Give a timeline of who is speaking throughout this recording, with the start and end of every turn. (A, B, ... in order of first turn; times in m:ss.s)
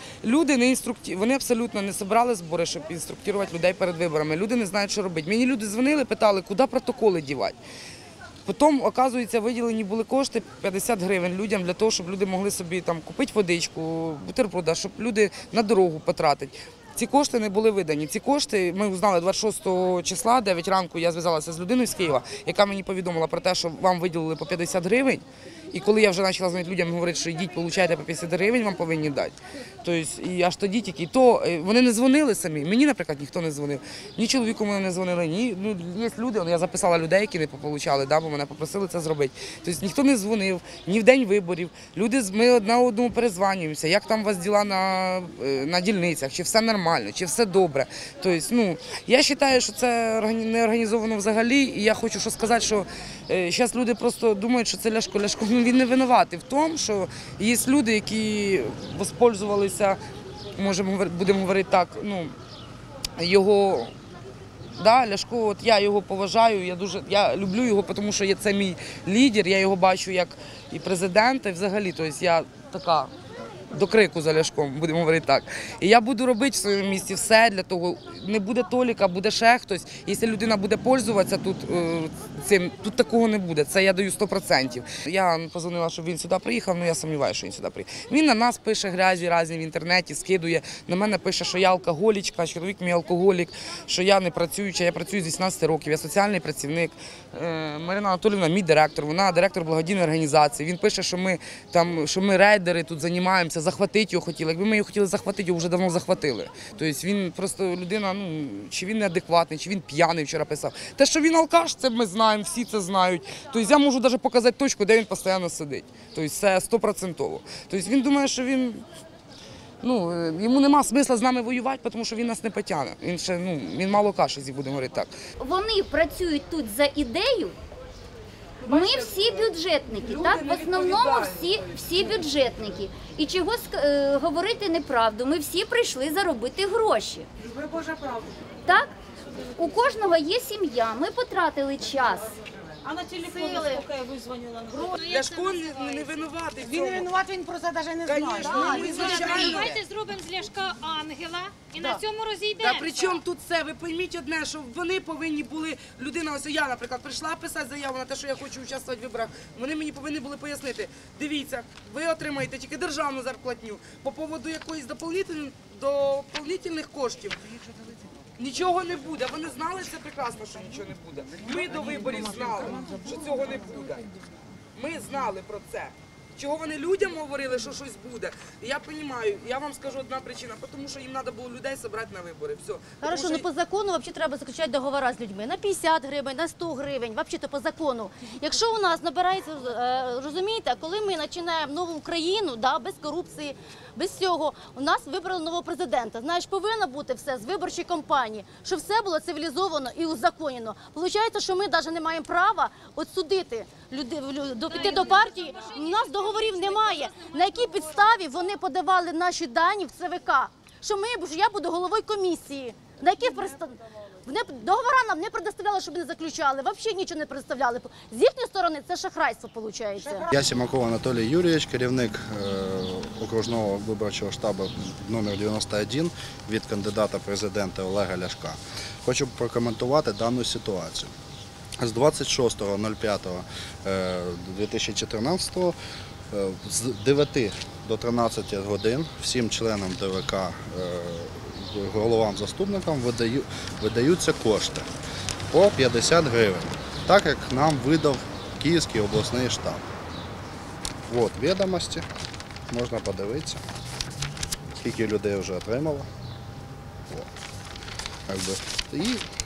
0:00.2-0:07.6 A
0:08.4-1:00.0 A
1:00.5-1:02.3 A
1:03.2-1:03.9 A
1:04.7-1:13.1 A
1:13.7-1:58.8 A
1:59.8-2:05.1 A
2:05.4-2:07.6 B
2:08.6-2:17.3 B
2:10.0-2:11.3 A
2:17.6-2:18.2 C
2:18.6-2:18.9 B
2:19.6-2:22.4 B
2:23.2-2:23.9 D
2:23.5-2:23.8 B
2:24.8-2:27.1 A
2:27.1-2:29.2 C
2:28.0-2:29.8 A
2:28.5-2:29.0 D
2:29.0-2:32.8 E
2:32.6-2:47.4 A
2:48.4-2:54.1 A
2:54.7-3:03.4 A
3:03.0-3:40.3 D
3:24.8-3:27.6 E
3:40.3-3:51.1 F
3:51.8-3:55.8 F
3:56.3-4:04.9 F
4:05.5-4:09.8 F
4:11.1-4:12.0 F
4:12.7-4:13.6 F
4:14.8-4:16.1 F
4:18.3-4:19.2 F